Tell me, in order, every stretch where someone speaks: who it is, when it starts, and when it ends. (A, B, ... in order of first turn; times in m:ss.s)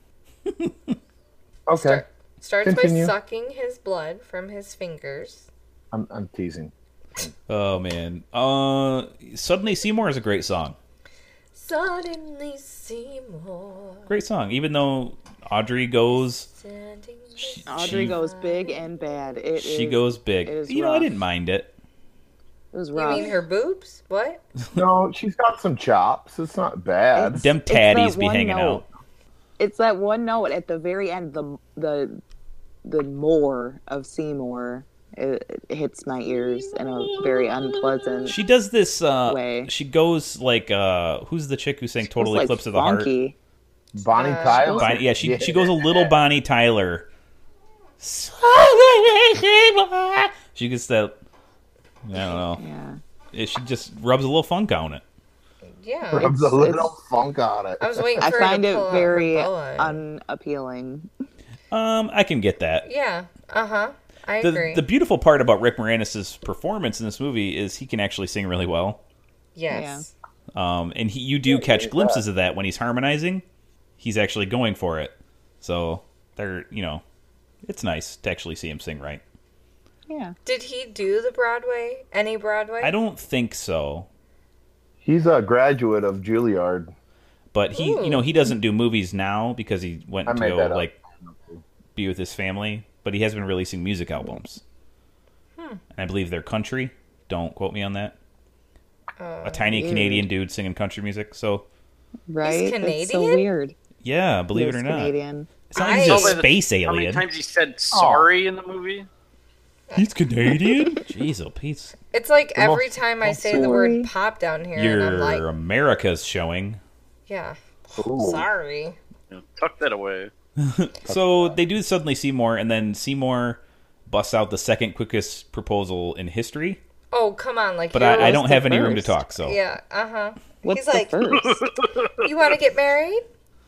0:00.5-0:01.0 A
0:01.7-0:02.0 B
0:01.8-0:05.5 C
0:02.6-0:03.1 B
0:05.9-0:07.3 B
0:07.5-0:10.8 A
0:11.5-0:14.1 C
0:14.1-0:16.5 A
0:16.5-0:18.9 C
0:17.5-0:18.2 A
0:17.7-0:21.1 D
0:19.6-0:21.7 A
0:22.7-0:23.4 D
0:22.9-0:24.4 C
0:24.8-0:27.5 B
0:27.2-0:28.8 D
0:27.4-0:28.8 A
0:29.6-0:32.2 D
0:32.8-0:38.4 D
0:36.6-0:38.2 E
0:38.3-0:43.1 A
0:39.3-0:39.7 D
0:42.0-0:43.4 D
0:44.0-0:46.2 B
0:44.2-0:44.7 C
0:44.4-0:44.9 D
0:44.7-0:47.1 A
0:48.0-0:51.2 A
0:52.1-0:52.6 A
0:52.6-0:53.0 D
0:53.3-0:55.0 A
0:55.7-0:56.3 C
0:56.1-0:56.9 D
0:56.1-0:58.5 B
0:57.8-1:00.0 C
0:58.2-1:01.1 D
1:01.7-1:02.8 A
1:02.8-1:04.8 C
1:04.4-1:09.0 A
1:09.6-1:10.1 C
1:09.7-1:10.1 D
1:10.6-1:13.4 A
1:11.5-1:12.2 B
1:14.0-1:17.0 A
1:17.6-1:19.2 A
1:20.1-1:20.4 D
1:20.4-1:23.0 C
1:22.8-1:24.1 A
1:25.0-1:26.9 B
1:27.5-1:31.0 A
1:27.7-1:28.3 C
1:30.3-1:31.6 B
1:32.0-1:34.6 A
1:35.6-1:35.8 C
1:35.9-1:38.2 A
1:39.2-1:39.7 C
1:39.4-1:41.6 A
1:39.7-1:40.3 D
1:42.3-1:43.8 D
1:42.4-1:43.5 C
1:44.0-1:45.2 A
1:44.5-1:45.5 D
1:45.7-1:47.3 A
1:45.8-1:46.4 C
1:45.8-1:49.1 E
1:47.9-1:48.3 B
1:50.0-1:52.0 A
1:52.1-1:55.4 C
1:52.6-1:53.8 B
1:53.3-1:54.1 D
1:54.8-1:56.8 A
1:57.3-1:59.0 C
1:58.0-1:58.5 B
1:59.3-2:00.3 E
2:00.6-2:06.8 A
2:01.1-2:01.6 B
2:07.1-2:11.2 C
2:07.9-2:09.6 A
2:08.1-2:09.2 D
2:10.6-2:11.6 D
2:11.4-2:12.3 E
2:12.2-2:13.2 C